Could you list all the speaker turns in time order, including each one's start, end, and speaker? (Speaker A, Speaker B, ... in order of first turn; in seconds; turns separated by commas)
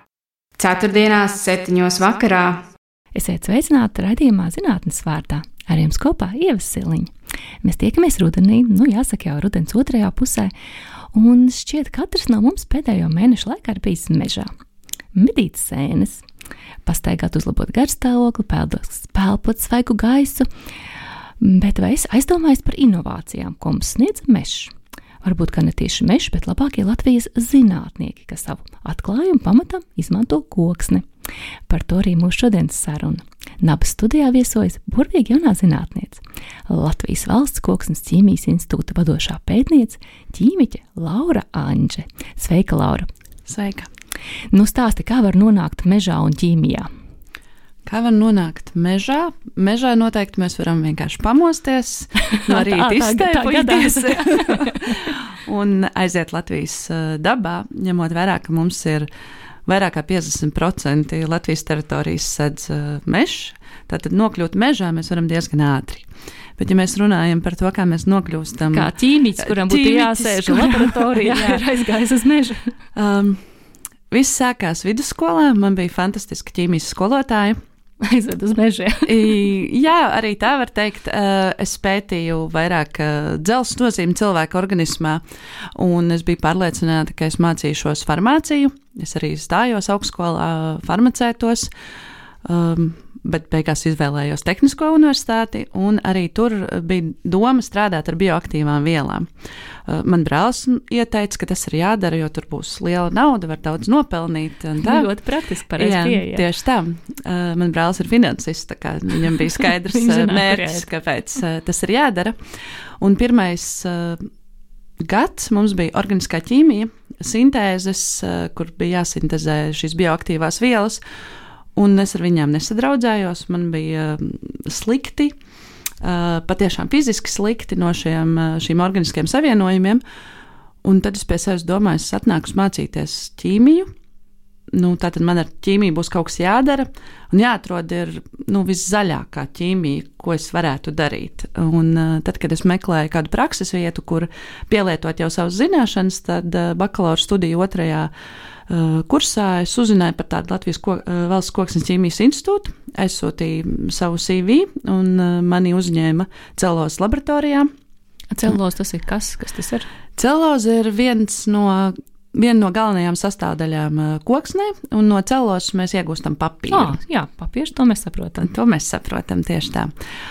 Speaker A: 0.6-2.6, Speaker B: 3.1-7.1, Speaker B: 7.6-10.5, Speaker B: 11.1-14.5, Speaker B: 15.1-16.2, Speaker B: 16.9-20.5, Speaker B: 21.4-31.1, Speaker B: 31.7-43.1, Speaker C: 43.5-43.9, Speaker B: 44.5-46.9, Speaker C: 47.9-59.1, Speaker B: 52.2-55.0, Speaker C: 59.6-71.6, Speaker B: 68.7-72.7, Speaker C: 72.9-73.4, Speaker C: 74.1-77.6, Speaker B: 78.0-79.4, Speaker C: 79.1-85.2, Speaker C: 85.8-91.7, Speaker C: 92.4-99.3, Speaker C: 99.8-105.1, Speaker B: 104.8-106.4, Speaker C: 105.8-112.4, Speaker B: 109.8-110.9, Speaker C: 113.0-114.3, Speaker C: 115.0-121.0, Speaker C: 121.8-125.3, Speaker C: 126.0-130.0, Speaker C: 130.8-133.9, Speaker C: 134.7-148.1, Speaker C: 148.7-157.7, Speaker B: 158.3-159.8, Speaker C: 160.2-167.0, Speaker B: 166.7-168.5, Speaker C: 168.4-169.9